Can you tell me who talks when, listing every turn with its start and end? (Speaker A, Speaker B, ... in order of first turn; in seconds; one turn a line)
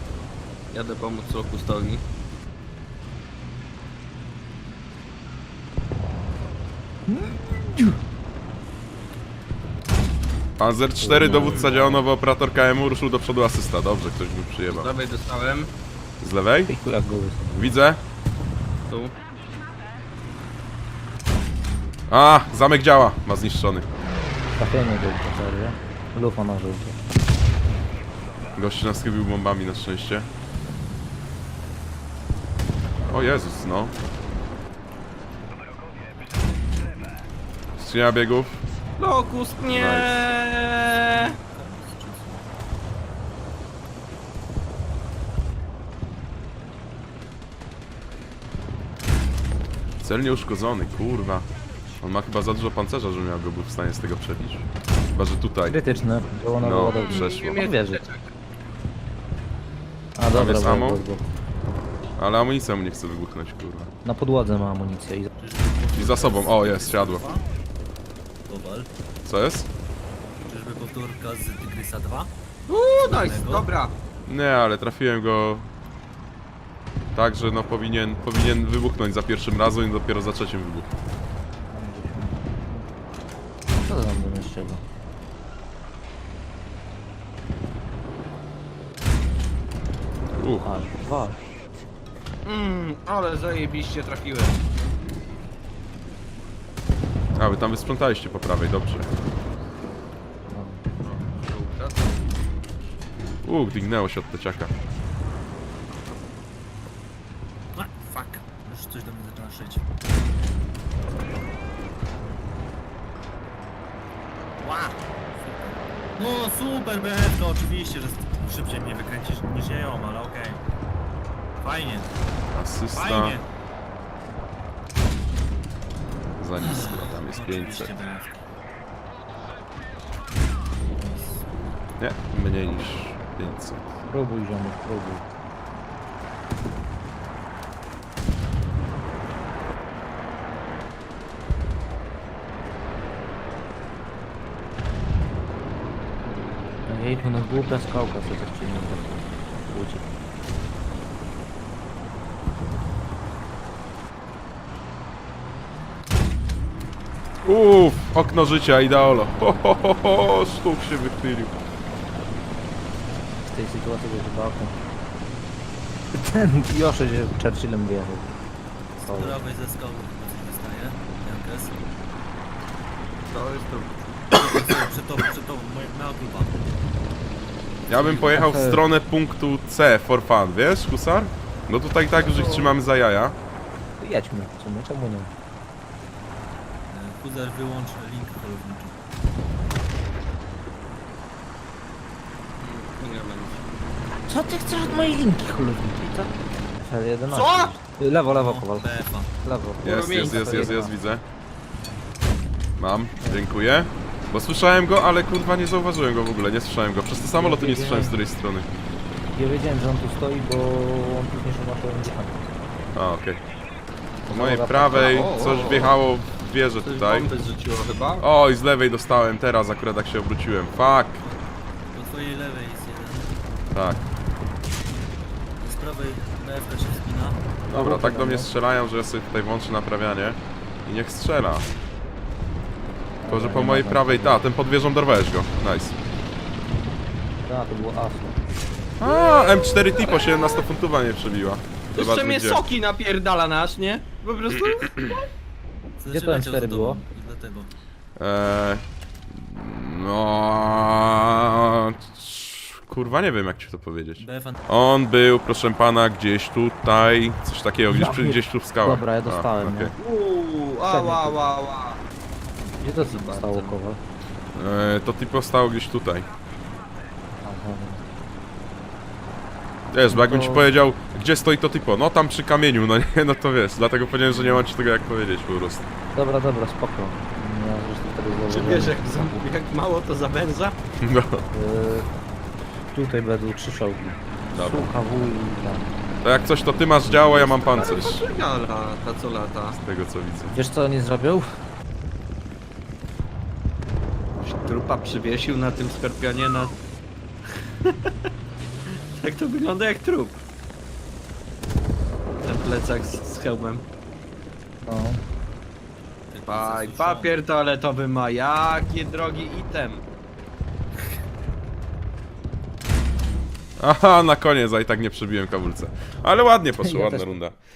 Speaker A: 0.7-2.0
Speaker B: 10.6-14.9
Speaker C: 11.0-12.0
Speaker A: 14.7-15.7
Speaker B: 16.2-16.7
Speaker C: 16.7-17.7
Speaker B: 17.5-18.0
Speaker A: 18.9-19.1
Speaker B: 22.1-23.9
Speaker C: 24.6-27.0
Speaker B: 28.6-30.3
Speaker B: 33.1-33.9
Speaker B: 37.8-38.6
Speaker A: 39.0-41.4
Speaker B: 39.7-40.2
Speaker D: 41.1-42.5
Speaker B: 50.0-51.5
Speaker B: 52.0-55.8
Speaker C: 55.7-58.0
Speaker B: 56.6-57.6
Speaker A: 57.0-58.3
Speaker C: 60.1-61.2
Speaker B: 60.3-61.0
Speaker B: 62.2-63.9
Speaker C: 64.0-65.3
Speaker D: 65.4-67.5
Speaker B: 65.9-67.2
Speaker D: 68.5-68.9
Speaker B: 69.2-69.7
Speaker D: 70.4-72.3
Speaker A: 72.7-73.9
Speaker D: 73.0-73.7
Speaker B: 74.3-75.7
Speaker B: 77.1-80.9
Speaker C: 81.7-82.8
Speaker C: 83.8-84.8
Speaker B: 90.3-90.7
Speaker C: 90.6-91.4
Speaker A: 92.5-94.6
Speaker B: 97.3-99.1
Speaker C: 100.5-100.8
Speaker A: 101.0-102.1
Speaker B: 103.4-104.7
Speaker D: 107.7-109.8
Speaker D: 114.6-120.6
Speaker D: 121.6-122.1
Speaker B: 122.5-123.4
Speaker D: 122.9-123.4
Speaker B: 126.4-127.9
Speaker D: 126.6-128.4
Speaker D: 130.8-131.4
Speaker B: 132.0-133.9
Speaker C: 134.1-135.3
Speaker C: 146.9-150.1
Speaker B: 157.4-161.5
Speaker C: 163.5-164.7
Speaker C: 166.1-168.3
Speaker D: 169.0-171.9
Speaker C: 169.0-169.4
Speaker A: 173.3-173.9
Speaker D: 174.3-176.6
Speaker B: 177.9-183.4
Speaker C: 177.9-178.8
Speaker A: 182.2-182.8
Speaker C: 184.0-185.3
Speaker D: 186.9-189.0
Speaker A: 192.6-193.6
Speaker C: 194.1-196.3
Speaker C: 196.9-198.8
Speaker A: 197.3-197.7
Speaker D: 198.2-199.3
Speaker C: 199.4-200.9
Speaker B: 199.8-201.2
Speaker A: 199.8-200.7
Speaker B: 202.8-208.8
Speaker C: 207.3-208.2
Speaker C: 209.3-212.3
Speaker B: 212.9-213.4
Speaker C: 214.3-215.5
Speaker B: 214.3-217.3
Speaker A: 214.9-215.9
Speaker A: 216.8-218.2
Speaker B: 218.2-221.2
Speaker D: 221.2-223.4
Speaker B: 223.7-224.0
Speaker D: 225.6-227.4
Speaker B: 227.7-231.7
Speaker C: 227.7-228.5
Speaker C: 233.2-234.4
Speaker B: 233.3-235.9
Speaker C: 237.4-238.4
Speaker B: 239.0-242.6
Speaker A: 239.1-240.2
Speaker A: 241.9-245.2
Speaker D: 246.0-247.7
Speaker C: 246.1-247.0
Speaker B: 248.2-259.9
Speaker D: 254.2-254.6
Speaker C: 257.9-259.9
Speaker A: 260.0-262.0
Speaker C: 260.8-261.5
Speaker C: 262.8-264.0
Speaker A: 263.0-263.8
Speaker B: 264.5-266.3
Speaker C: 267.4-268.0
Speaker B: 269.9-275.9
Speaker C: 270.1-270.7
Speaker C: 274.3-274.6
Speaker C: 276.1-279.4
Speaker A: 278.5-280.8
Speaker B: 281.0-281.4
Speaker C: 281.5-282.1
Speaker C: 282.9-285.8
Speaker B: 284.5-284.9
Speaker B: 286.2-288.2
Speaker C: 287.0-288.0
Speaker A: 287.8-289.8
Speaker B: 289.7-290.5
Speaker C: 290.5-291.5
Speaker A: 294.4-296.8
Speaker A: 297.8-298.1
Speaker A: 299.1-300.4
Speaker A: 302.4-303.8
Speaker C: 304.8-305.2
Speaker D: 306.3-307.4
Speaker A: 306.5-310.0
Speaker B: 313.8-317.5
Speaker C: 316.8-317.4